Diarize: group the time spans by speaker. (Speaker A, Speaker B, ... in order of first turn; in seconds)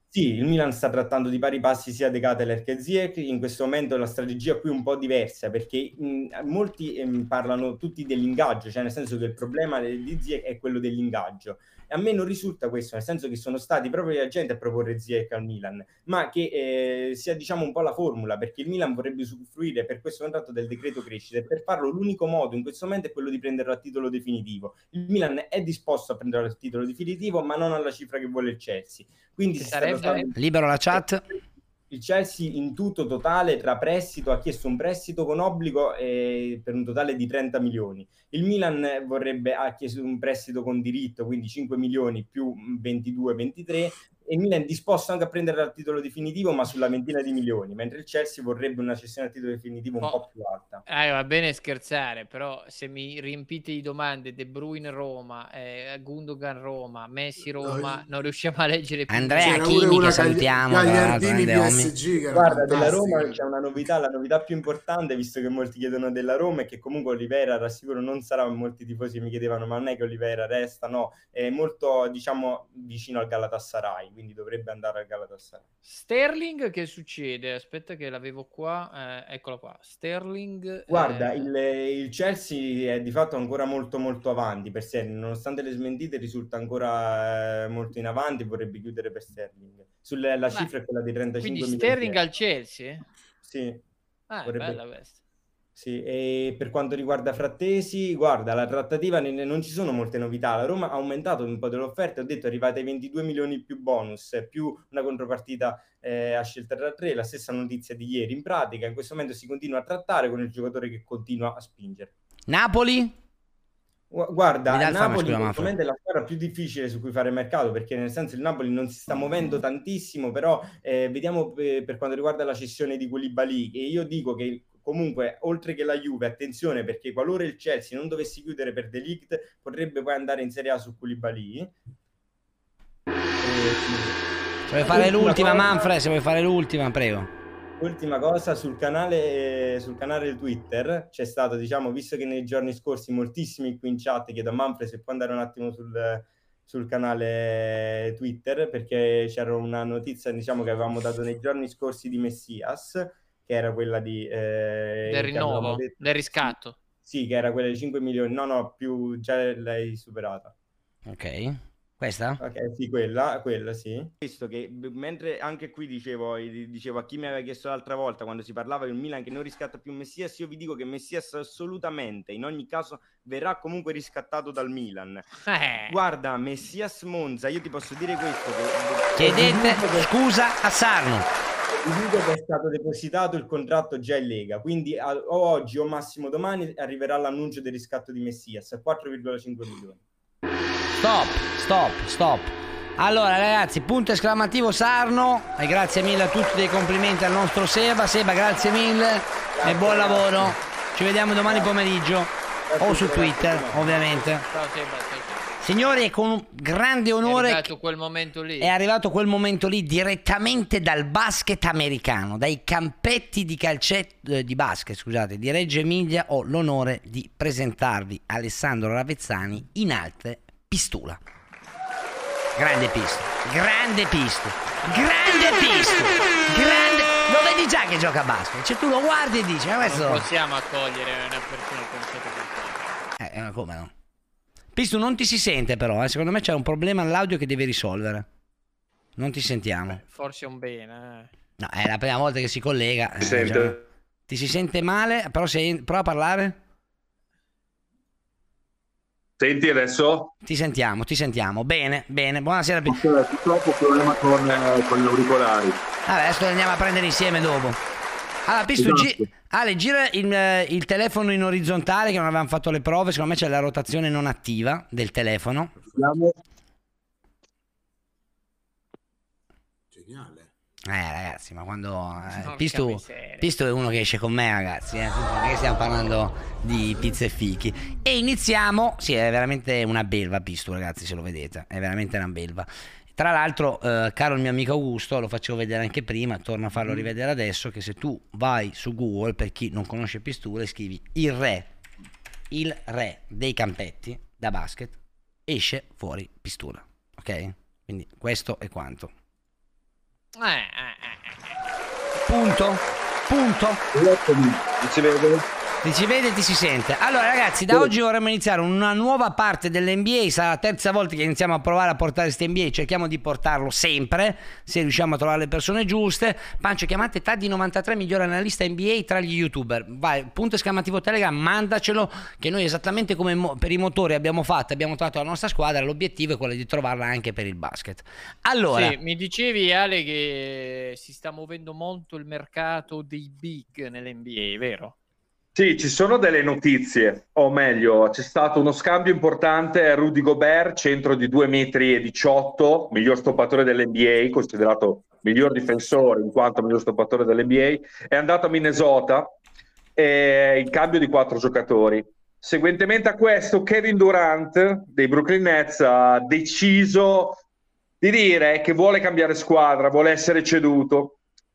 Speaker A: 0.1-30.3, 31.9-50.8, 62.3-75.6, 80.9-92.2, 93.4-93.8, 94.5-94.8, 95.8-112.1, 114.1-131.7, 133.4-134.2, 134.8-135.8, 137.8-155.9, 157.1-160.5, 162.4-175.2, 175.9-180.1, 181.7-190.0, 199.6-200.6, 201.4-201.7, 202.7-203.9
Speaker B: 29.6-30.3, 50.9-60.0, 75.8-81.5, 91.4-93.0, 94.3-95.2, 155.1-156.8, 175.5-176.0, 204.4-205.5, 207.2-208.7, 229.8-233.0, 239.9-241.3, 272.4-273.5, 300.4-301.6, 328.7-334.9
Speaker C: 30.4-31.2, 59.1-61.9, 112.5-113.2, 114.7-115.7, 134.7-137.3, 161.1-162.4, 179.2-181.3, 191.0-204.4, 205.6-207.7, 208.6-221.2, 222.6-230.3, 233.2-233.9, 234.7-238.3, 239.2-240.0, 241.6-243.8, 244.3-246.6, 250.4-253.0, 256.1-257.8, 258.4-265.8, 270.9-291.7, 292.5-299.1, 302.2-303.8, 305.8-329.0
Speaker D: 57.6-58.0, 59.4-63.4, 269.9-270.5
Speaker E: 243.2-243.8, 249.4-250.3, 252.9-255.8, 258.8-259.2, 265.9-266.3, 303.9-305.4, 335.6-349.3, 349.9-357.4, 358.0-361.2